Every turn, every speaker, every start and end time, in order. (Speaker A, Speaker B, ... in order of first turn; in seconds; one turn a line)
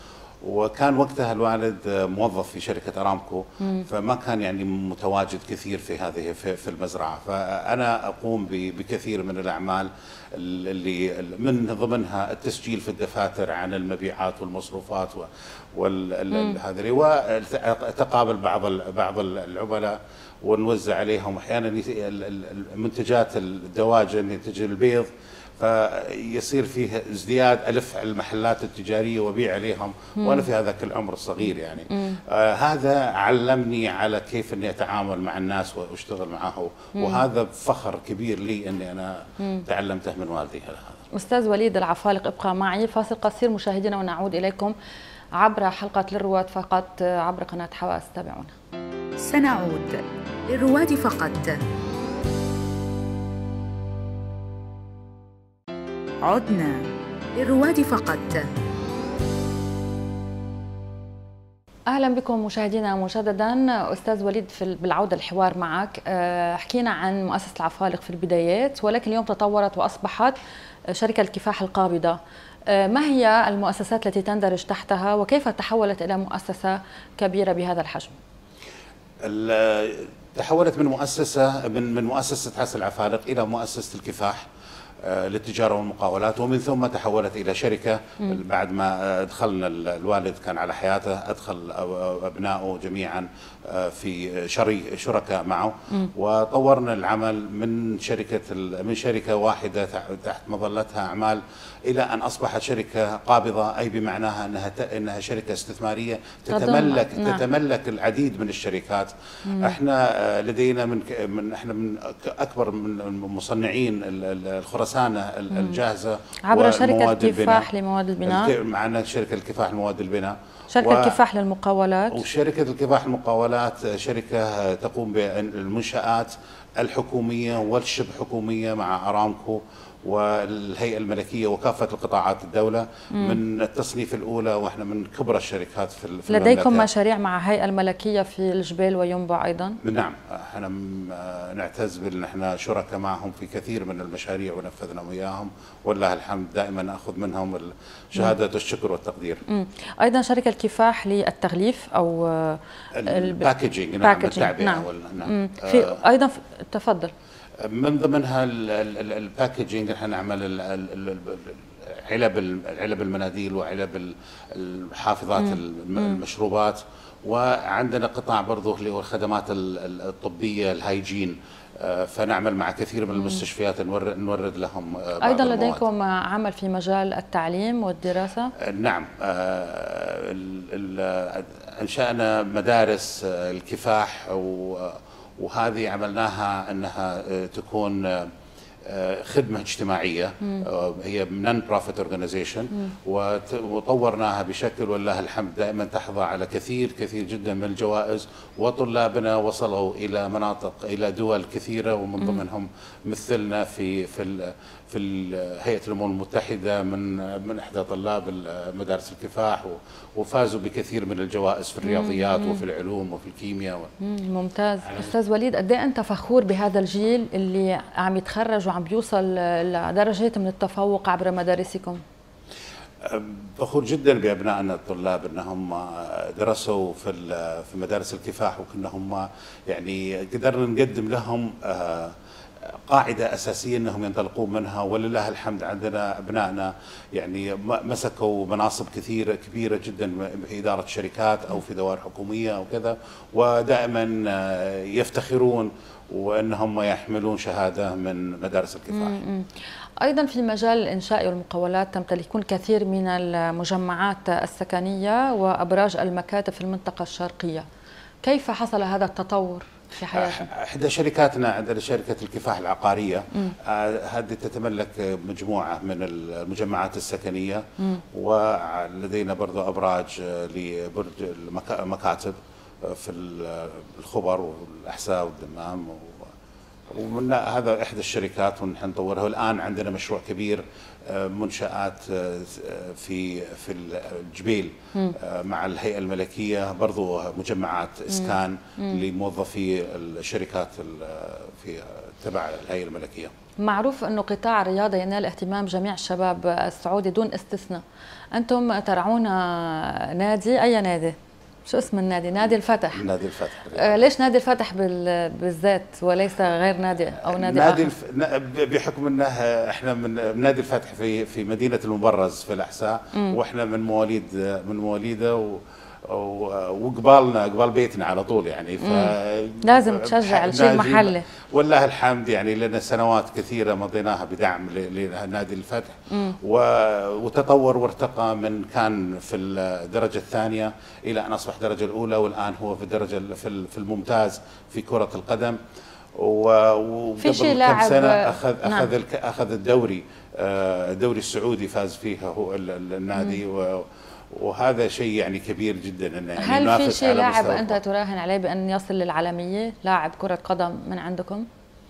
Speaker A: 0.4-41.0
Speaker B: 3.6-3.9
Speaker B: 16.3-16.6
Speaker B: 30.2-30.5
Speaker B: 31.9-32.2
Speaker B: 37.0-37.2
Speaker B: 41.1-44.7
Speaker B: 45.4-48.5
Speaker C: 49.2-51.6
Speaker C: 56.2-58.5
Speaker B: 61.9-70.3
Speaker B: 70.9-78.2
Speaker A: 79.2-84.5
Speaker A: 85.0-117.7
Speaker B: 106.5-107.4
Speaker B: 109.5-109.8
Speaker B: 115.5-115.8
Speaker B: 116.5-118.5
Speaker A: 118.2-121.2
Speaker B: 120.7-122.2
Speaker A: 122.1-136.9
Speaker B: 133.1-133.4
Speaker B: 136.3-139.8
Speaker A: 139.8-149.4
Speaker B: 149.5-153.5
Speaker A: 152.9-156.0
Speaker B: 154.0-157.1
Speaker A: 157.6-175.8
Speaker B: 165.4-166.2
Speaker B: 173.2-173.4
Speaker B: 175.2-178.5
Speaker A: 178.6-188.3
Speaker A: 188.8-213.9
Speaker B: 211.8-212.6
Speaker B: 214.0-222.0
Speaker A: 223.0-232.2
Speaker A: 232.7-249.2
Speaker B: 248.9-249.5
Speaker B: 250.0-257.6
Speaker B: 258.2-260.5
Speaker A: 260.1-276.3
Speaker A: 276.9-293.3
Speaker B: 288.1-289.0
Speaker B: 293.6-297.8
Speaker B: 298.3-303.0
Speaker A: 302.9-304.0
Speaker B: 303.7-307.9
Speaker A: 307.2-335.6
Speaker B: 313.1-313.4
Speaker B: 318.8-321.2
Speaker B: 326.1-326.4
Speaker A: 336.1-347.8
Speaker B: 337.2-338.9
Speaker B: 346.4-351.5